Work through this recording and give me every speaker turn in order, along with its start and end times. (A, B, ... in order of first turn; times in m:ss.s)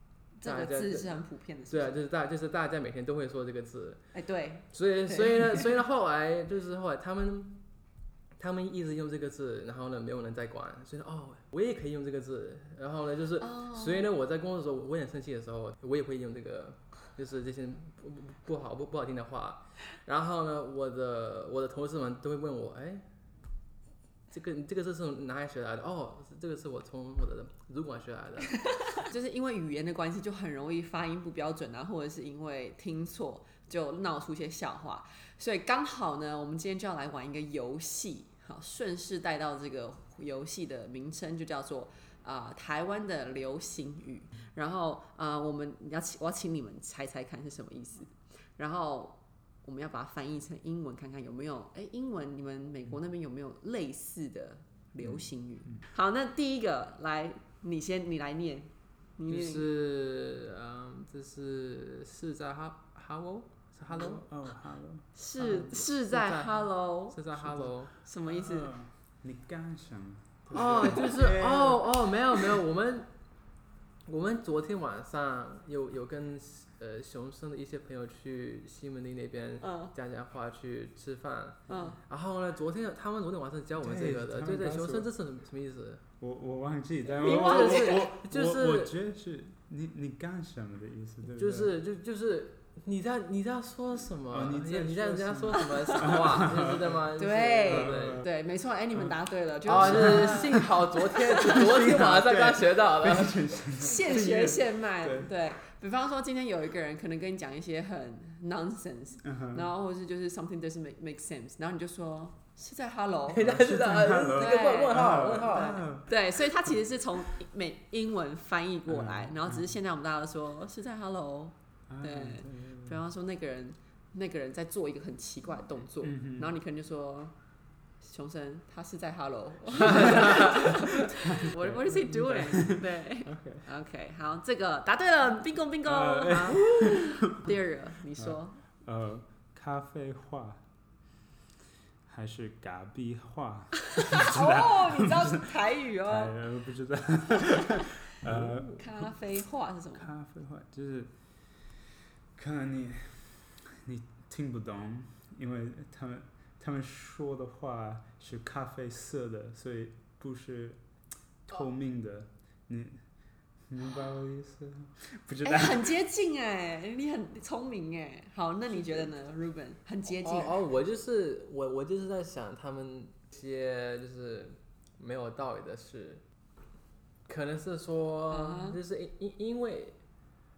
0:00.4-0:02.0 A
0:00.4-0:01.2 B
0:01.7-0:04.0 B
0:04.1-0:05.7 A
0:04.7-0:07.6 B
0:08.4-0:23.1 B
0:13.4-0:14.1 A
0:24.3-0:28.7 B
0:28.9-0:59.6 A
0:55.0-0:55.8 C
0:59.3-1:04.2 B
1:03.9-1:05.1 C
1:05.2-1:07.2 A
1:05.4-1:07.9 B
1:07.4-1:07.7 C
1:08.0-1:08.7 A
1:08.3-1:11.9 C
1:10.5-1:13.1 B
1:14.1-1:26.0 B
1:19.6-1:19.9 A
1:21.7-1:22.0 A
1:23.8-1:25.1 C
1:26.2-1:31.7 C
1:27.1-1:29.0 B
1:27.2-1:28.1 A
1:31.3-1:38.2 B
1:34.3-1:37.1 C
1:37.2-1:41.6 A
1:37.7-1:38.3 C
1:39.7-1:43.6 B
1:39.7-1:45.3 C
1:43.8-1:53.5 A
1:49.2-1:49.7 C
1:53.3-1:55.8 B
1:53.4-1:56.8 C
1:54.4-2:07.3 A
1:58.9-1:59.8 C
2:01.9-2:03.0 C
2:06.0-2:06.6 C
2:08.0-2:18.6 A
2:09.7-2:13.7 C
2:15.8-2:17.5 C
2:18.2-2:20.6 C
2:22.1-2:29.1 C
2:24.0-2:26.4 A
2:28.3-2:28.6 B
2:28.8-2:30.1 A
2:30.0-2:31.1 C
2:32.3-2:40.8 C
2:41.5-2:43.0 C
2:43.7-2:46.0 C
2:45.4-2:50.6 A
2:50.1-2:56.2 B
2:57.3-3:00.0 B
2:58.3-2:58.8 A